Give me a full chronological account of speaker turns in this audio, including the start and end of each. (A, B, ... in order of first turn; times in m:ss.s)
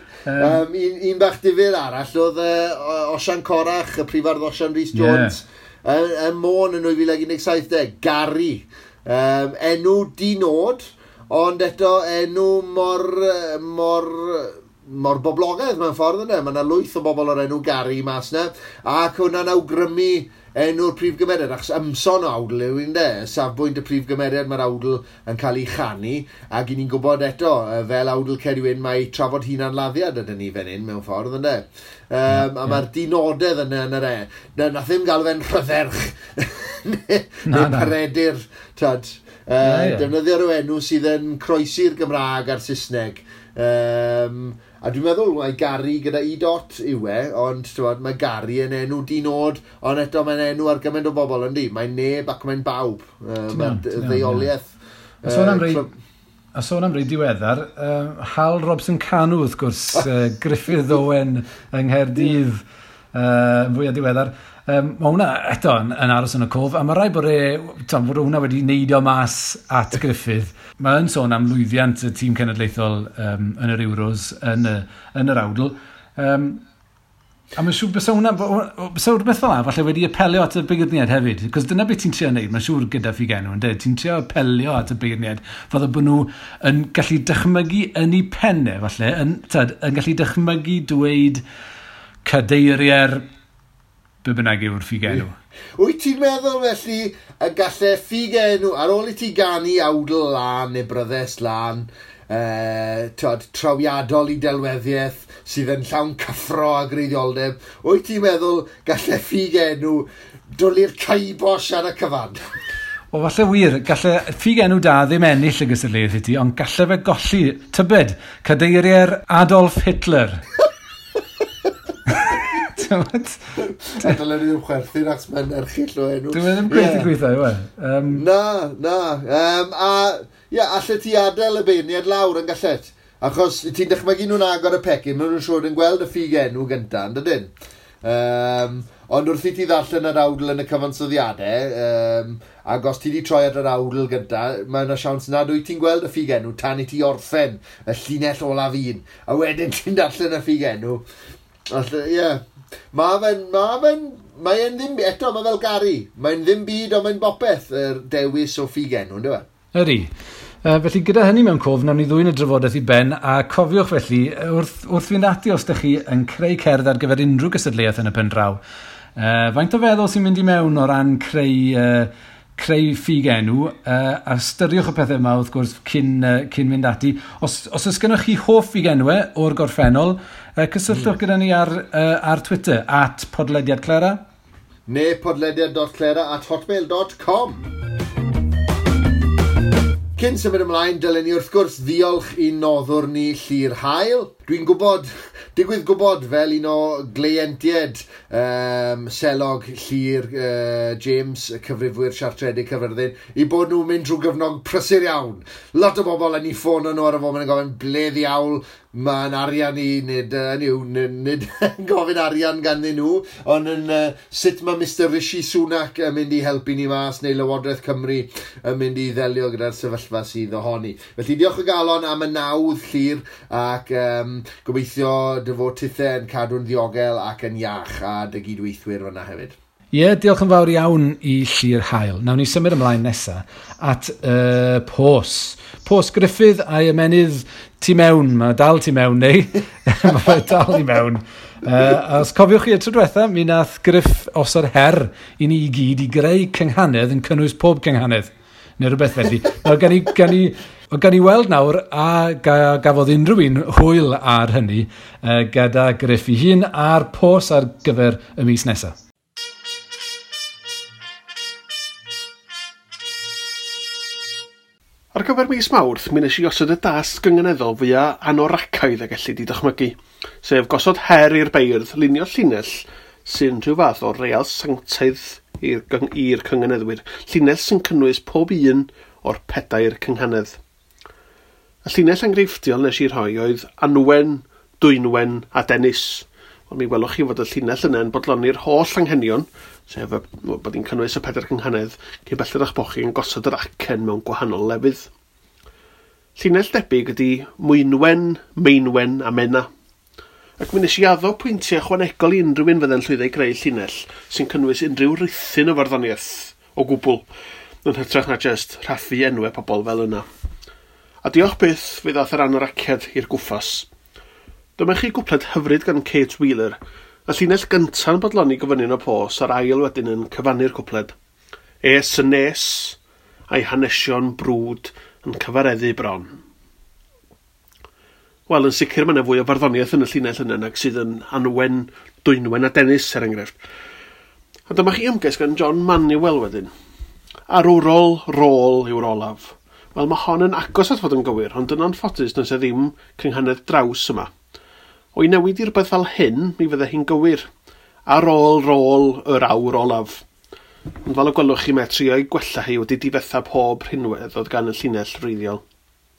0:00.2-0:00.6 A
0:00.4-0:54.7 B
0:04.9-0:05.4 A
0:32.3-0:32.8 A
0:37.5-0:37.9 A
0:39.6-0:40.1 A
0:53.5-0:54.5 A
0:55.2-0:55.9 B
0:55.2-0:55.9 A
0:56.5-1:16.6 A
1:17.5-1:31.4 A
1:32.2-1:33.2 A
1:34.2-1:35.3 A
1:35.8-1:52.4 B
1:53.1-2:00.4 A
2:02.3-2:04.1 A
2:03.8-2:07.1 B
2:06.3-2:08.2 A
2:08.1-2:17.5 B
2:18.0-2:31.0 B
2:31.7-2:39.5 B
2:39.7-2:40.1 A
2:40.6-2:48.6 A
2:49.2-3:04.2 A
3:04.9-3:07.7 B
3:10.2-3:49.6 B
3:49.9-4:19.0 A
4:25.1-4:40.6 C
4:41.8-4:55.1 C
4:56.4-4:59.7 C
5:00.6-5:07.2 C
5:07.8-5:10.2 C
5:11.2-5:13.9 C
5:14.8-5:21.1 C
5:21.8-5:23.0 C
5:23.5-5:26.4 C
5:28.5-5:33.6 C
5:34.7-5:36.7 C
5:37.5-5:44.3 C
5:45.1-5:47.5 C
5:48.1-5:50.2 C
5:51.0-5:55.6 C